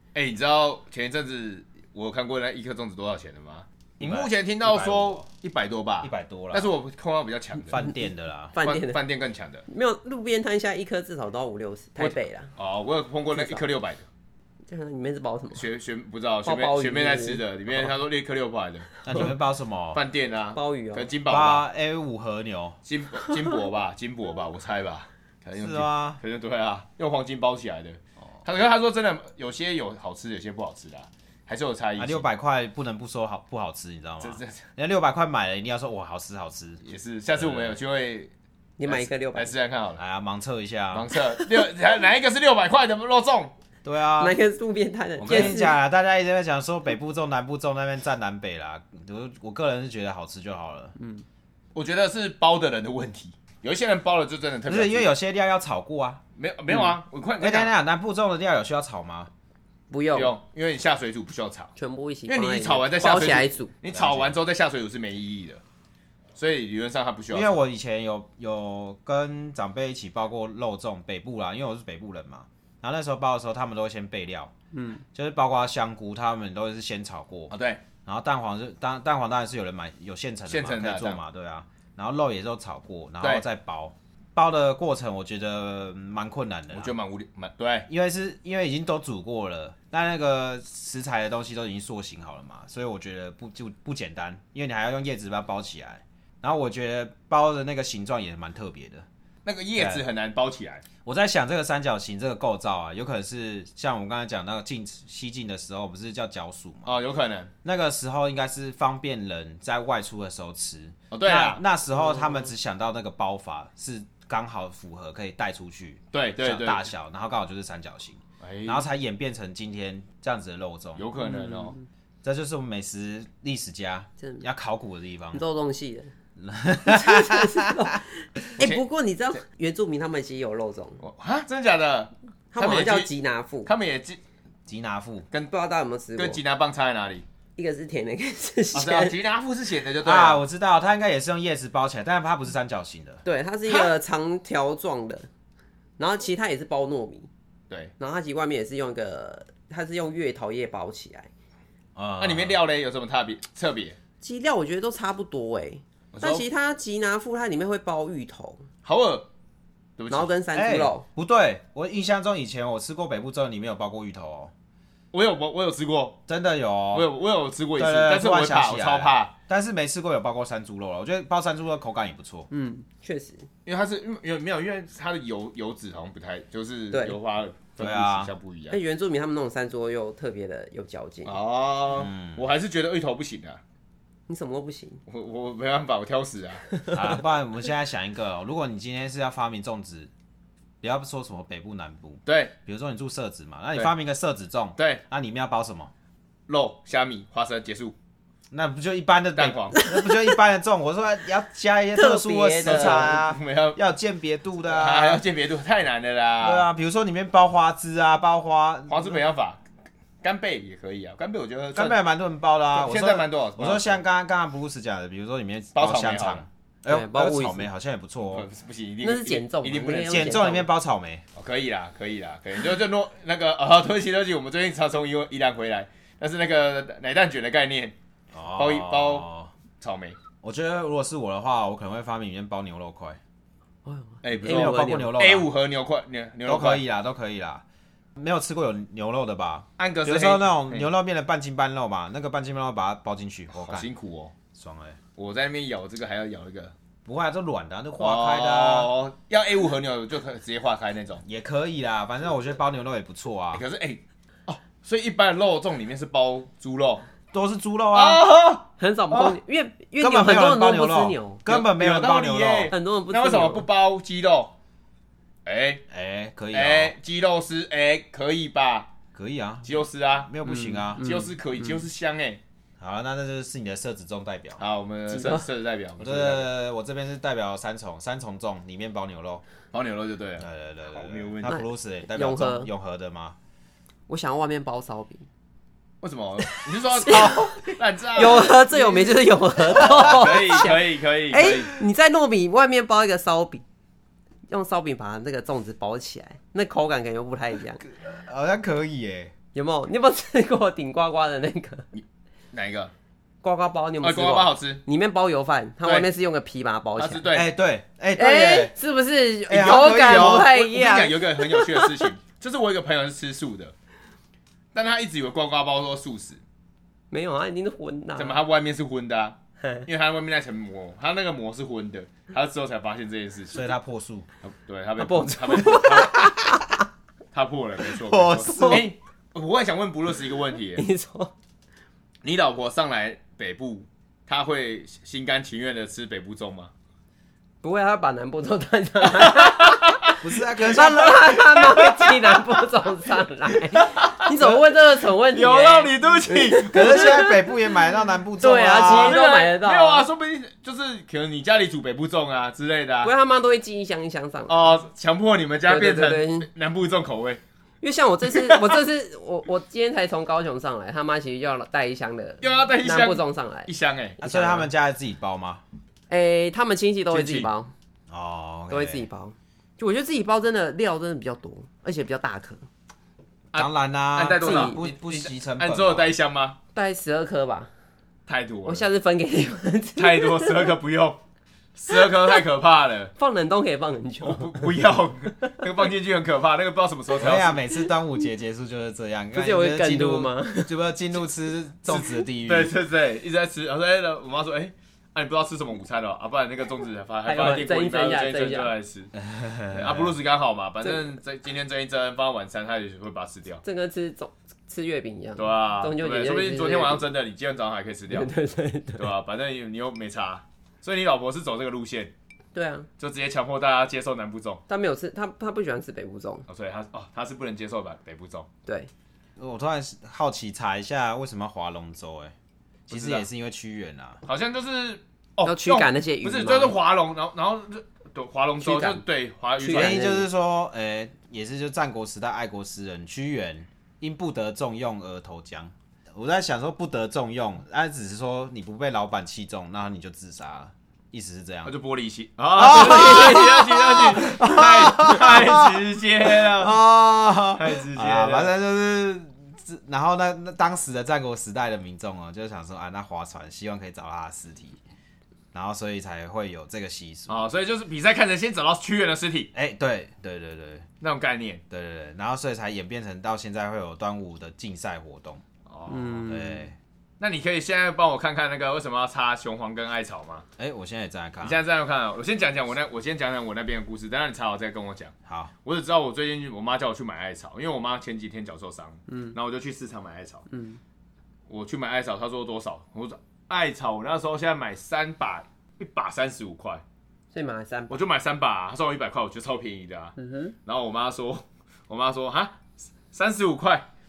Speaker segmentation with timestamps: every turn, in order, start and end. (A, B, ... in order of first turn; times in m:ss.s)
0:00.1-0:07.8 A
0:04.0-0:05.2 B
0:06.0-0:06.7 B
0:07.6-0:08.5 B
0:08.5-0:09.0 C
0:08.6-0:09.6 A
0:09.7-0:12.5 C
0:12.0-0:14.0 A
0:13.3-0:13.6 C
0:14.7-0:15.6 C
0:15.5-0:19.3 A
0:16.4-0:17.4 C
0:19.0-0:20.0 B
0:19.9-0:21.6 A
0:20.5-0:21.1 C
0:21.3-0:22.8 B
0:22.8-0:32.2 A
0:25.6-0:26.2 B
0:32.0-0:36.8 B
0:34.2-0:34.6 A
0:36.8-0:38.3 A
0:37.4-0:37.8 B
0:38.8-0:39.5 C
0:38.8-0:40.0 A
0:40.0-0:41.1 B
0:40.9-0:43.5 A
0:41.4-0:41.6 C
0:43.8-0:44.4 B
0:44.2-0:45.7 C
0:45.2-0:45.6 A
0:45.2-0:50.9 B
0:51.0-0:51.2 C
0:51.7-0:55.1 A
0:54.6-0:56.2 B
0:56.4-0:57.7 A
0:57.4-0:59.3 B
0:59.9-1:00.3 C
1:00.1-1:01.7 A
1:01.8-1:03.7 C
1:02.3-1:05.6 A
1:03.9-1:04.4 B
1:06.4-1:07.6 A
1:07.3-1:14.5 B
1:14.7-1:15.0 C
1:15.1-1:17.5 B
1:17.5-1:17.8 A
1:18.0-1:26.9 B
1:20.5-1:21.2 A
1:26.7-1:27.9 A
1:27.9-1:39.0 B
1:39.4-1:40.8 A
1:39.8-1:40.0 B
1:41.0-1:46.9 B
1:46.8-1:47.5 A
1:47.6-2:01.1 B
1:51.1-1:51.6 A
1:56.1-1:56.9 A
1:58.4-1:58.9 A
2:01.0-2:01.8 A
2:01.2-2:01.8 C
2:02.2-2:05.4 B
2:05.3-2:06.1 C
2:06.4-2:07.9 B
2:06.8-2:11.0 C
2:11.0-2:13.1 A
2:12.5-2:13.7 C
2:13.6-2:14.2 A
2:14.7-2:15.3 B
2:15.5-2:16.4 C
2:16.2-2:17.2 A
2:17.6-2:19.2 C
2:18.7-2:20.4 A
2:20.0-2:23.2 B
2:23.2-2:25.3 C
2:26.0-2:27.3 C
2:28.0-2:31.3 C
2:32.0-2:32.6 B
2:32.2-2:34.0 A
2:34.2-2:38.6 C
2:36.1-2:36.4 A
2:38.8-2:39.3 A
2:40.0-2:40.3 A
2:40.1-2:41.0 C
2:40.5-2:44.5 B
2:45.1-2:46.2 A
2:46.3-2:47.1 B
2:46.9-2:49.3 A
2:47.8-2:52.5 B
2:52.5-2:53.5 C
2:53.6-2:58.8 A
2:56.9-2:57.2 C
2:57.8-2:58.3 B
2:58.7-3:01.4 C
3:01.2-3:03.6 A
3:01.9-3:02.4 B
3:04.3-3:05.0 C
3:05.1-3:06.6 A
3:06.7-3:07.0 C
3:06.9-3:10.1 B
3:10.8-3:15.9 B
3:12.2-3:12.5 A
3:14.8-3:15.0 A
3:16.5-3:17.9 A
3:18.5-3:25.2 B
3:19.4-3:19.8 A
3:19.7-3:20.1 C
3:21.9-3:23.2 C
3:22.6-3:23.8 A
3:24.7-3:26.7 A
3:26.4-3:29.2 B
3:28.9-3:29.6 A
3:30.2-3:32.0 A
3:31.7-3:38.5 B
3:32.7-3:34.0 A
3:35.7-3:36.4 A
3:36.9-3:37.7 C
3:38.3-3:40.4 A
3:39.0-3:40.7 C
3:40.1-3:41.2 B
3:41.4-3:47.9 A
3:48.3-3:49.5 B
3:48.6-3:49.3 A
3:49.8-3:50.2 A
3:50.4-3:53.2 B
3:53.8-3:55.2 C
3:54.2-3:56.8 A
3:54.4-3:55.5 B
3:56.4-3:57.6 B
3:58.2-4:03.9 B
3:59.8-4:00.9 A
4:03.5-4:04.3 A
4:04.5-4:05.0 B
4:05.2-4:06.7 A
4:07.0-4:08.9 B
4:08.0-4:11.2 A
4:11.2-4:13.6 B
4:13.5-4:17.1 A
4:17.3-4:18.2 B
4:17.9-4:19.4 A
4:18.8-4:21.4 C
4:20.0-4:22.7 B
4:21.5-4:24.5 A
4:22.7-4:23.7 C
4:25.4-4:25.8 A
4:25.9-4:26.9 B
4:26.5-4:28.9 A
4:29.1-4:31.0 B
4:29.6-4:30.3 A
4:30.4-4:31.8 C
4:31.0-4:32.4 A
4:32.8-4:34.6 B
4:34.6-4:36.5 A
4:35.1-4:35.4 C
4:36.0-4:39.4 B
4:39.7-4:41.6 A
4:40.4-4:43.4 B
4:41.4-4:42.7 C
4:44.1-4:45.2 C
4:46.0-4:51.8 A
4:46.9-4:53.6 C
4:49.8-4:50.1 B
4:54.5-4:57.8 C
4:57.8-4:59.3 B
4:59.5-5:01.9 C
5:01.9-5:02.9 A
5:03.4-5:07.3 C
5:04.0-5:04.8 A
5:07.0-5:07.5 A
5:07.3-5:08.7 B
5:08.2-5:12.1 C
5:09.5-5:10.5 B
5:09.6-5:13.7 A
5:14.7-5:16.4 A
5:17.1-5:18.4 C
5:18.2-5:23.6 A
5:23.5-5:24.3 B
5:24.4-5:26.3 A
5:25.0-5:26.7 C
5:27.3-5:30.8 A
5:27.9-5:28.9 B
5:28.5-5:28.8 C
5:30.8-5:31.3 C
5:32.2-5:36.7 A
5:37.6-5:39.9 C
5:39.2-5:40.1 A
5:40.2-5:41.4 B
5:40.5-5:47.5 C
5:41.4-5:42.4 A
5:43.7-5:44.3 A
5:45.3-5:47.3 A
5:46.7-5:49.2 B
5:48.4-5:50.1 C
5:48.8-5:53.1 A
5:53.0-5:54.8 C
5:54.5-5:57.4 A
5:55.6-5:56.5 C
5:57.8-6:04.7 C
5:58.3-5:58.8 A
6:02.4-6:04.2 A
6:04.2-6:05.6 B
6:06.1-6:07.7 C
6:07.1-6:07.5 A
6:08.1-6:09.1 B
6:08.7-6:12.6 C
6:13.5-6:16.6 A
6:13.5-6:16.1 B
6:14.4-6:14.8 C
6:16.7-6:17.7 C
6:18.3-6:18.9 A
6:18.6-6:20.7 C
6:20.0-6:21.2 A
6:21.8-6:23.1 A
6:21.9-6:22.4 C
6:23.2-6:24.8 C
6:24.2-6:27.6 A
6:27.2-6:32.7 B
6:29.3-6:30.7 C
6:31.9-6:39.1 A
6:37.2-6:38.7 C
6:39.2-6:40.2 B
6:39.7-6:43.6 A
6:43.6-6:47.1 C
6:45.4-6:48.3 A
6:48.1-6:49.1 C
6:49.0-6:52.1 A
6:52.5-6:52.9 C
6:53.0-6:54.6 A
6:54.7-6:56.4 C
6:56.5-6:58.5 A
6:59.4-7:02.3 B
7:02.9-7:04.2 B
7:02.9-7:03.2 A
7:04.2-7:10.0 A
7:05.4-7:06.8 C
7:08.6-7:09.0 C
7:09.6-7:10.3 C
7:09.7-7:21.7 B
7:21.6-7:26.8 A
7:22.6-7:34.8 B
7:22.6-7:23.6 C
7:27.5-7:28.5 A
7:35.5-7:37.4 B
7:37.3-7:39.5 A
7:39.5-7:40.8 B
7:41.0-7:41.6 A
7:41.7-7:45.4 B
7:45.6-7:46.3 A
7:45.9-7:46.6 C
7:46.3-7:46.8 B
7:47.2-7:50.4 A
7:50.6-7:51.6 B
7:51.4-7:55.1 A
7:55.2-7:55.5 B
7:55.6-8:00.4 A
7:59.1-7:59.4 C
8:00.5-8:00.8 C
8:01.5-8:06.8 A
8:07.3-8:08.0 C
8:07.9-8:13.9 A
8:10.2-8:10.5 C